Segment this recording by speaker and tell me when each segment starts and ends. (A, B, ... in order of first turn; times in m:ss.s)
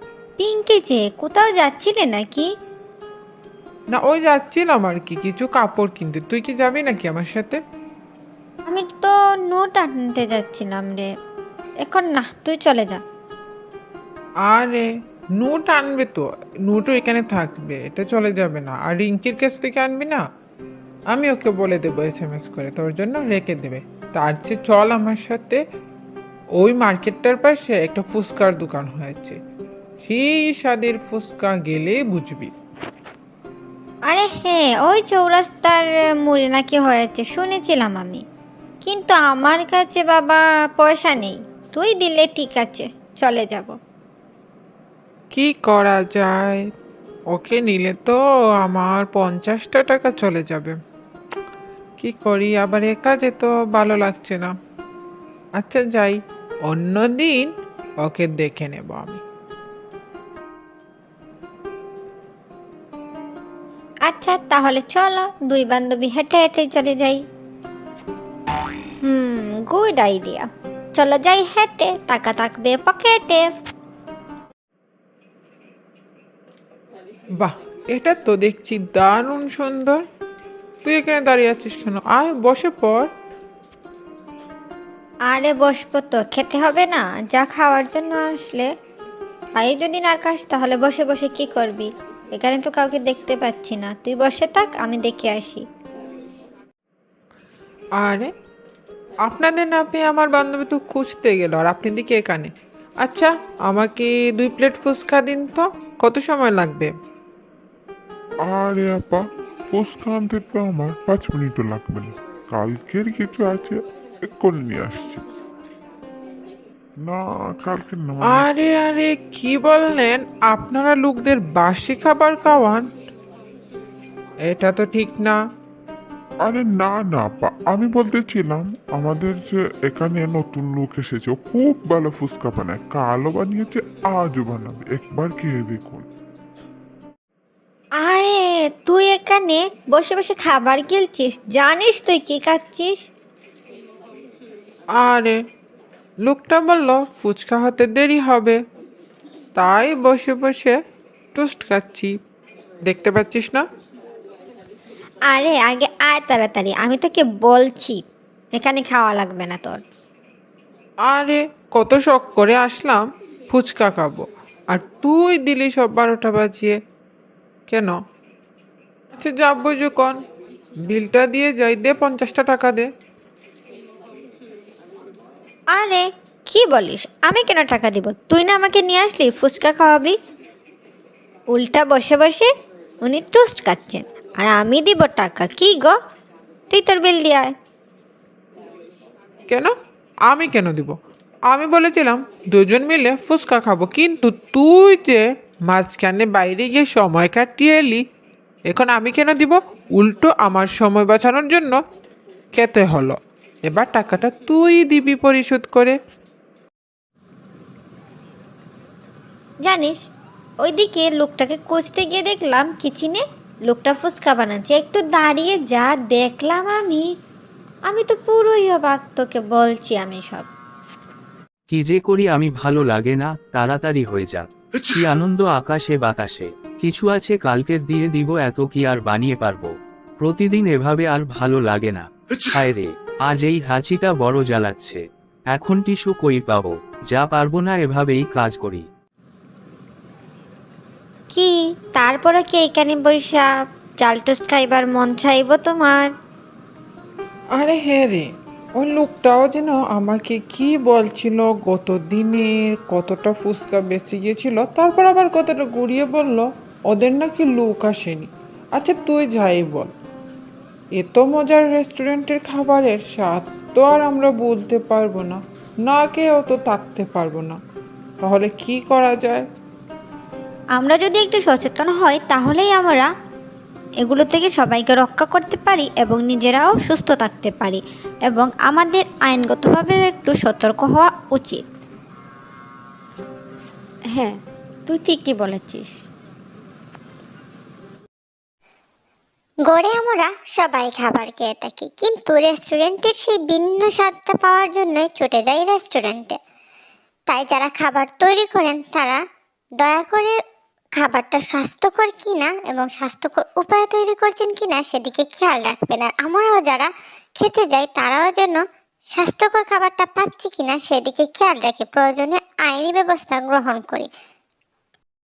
0:00.4-0:02.5 A
0:03.9-0:07.6 B
0:08.6-0:11.1 A
0:11.8-0:13.0 A
0:14.5-0:20.2 B
0:21.1-0:25.6 B
0:26.6-0:29.4 B
0:30.0-0:32.5 B
0:34.1-0:38.2 A
0:38.8-0:43.8 A
0:45.3-0:46.6 B
0:47.3-0:50.8 B
0:52.0-0:54.5 B
0:55.6-0:57.5 B
0:58.0-0:59.2 B
1:04.0-1:07.2 A
1:09.0-1:13.5 A
1:17.4-1:20.0 B
1:20.8-1:23.1 B
1:25.3-1:28.7 A
1:29.6-1:35.6 A
1:38.0-1:38.3 B
1:39.2-1:42.5 B
1:43.0-1:46.9 B
1:48.4-1:55.2 C
1:57.0-1:58.5 C
1:58.3-2:02.9 B
2:04.5-2:05.4 B
2:06.4-2:16.0 C
2:18.0-2:23.0 A
2:25.0-2:25.4 B
2:26.2-2:28.6 B
2:29.6-2:30.8 B
2:31.3-2:32.1 B
2:32.8-2:33.6 B
2:35.3-2:38.0 A
2:38.5-2:39.8 A
2:41.1-2:46.8 B
2:47.7-2:47.9 B
2:49.1-2:50.2 B
2:50.9-2:52.9 B
2:55.7-3:00.2 A
3:01.5-3:02.5 A
3:03.0-3:06.0 A
3:06.7-3:07.5 A
3:10.3-3:10.9 B
3:11.5-3:18.0 B
3:18.7-3:21.8 B
3:22.5-3:26.0 B
3:29.6-3:30.0 A
3:30.6-3:37.0 A
3:37.9-3:40.5 A
3:41.7-3:58.9 D
4:01.3-4:03.5 A
4:04.0-4:06.1 A
4:07.6-4:19.9 B
4:21.0-4:27.6 B
4:28.2-4:29.4 B
4:30.8-4:33.1 A
4:34.0-4:41.6 A
4:44.9-4:45.9 A
4:49.6-4:56.4 E
4:57.3-4:59.2 E
4:59.8-5:00.4 E
5:00.9-5:14.1 E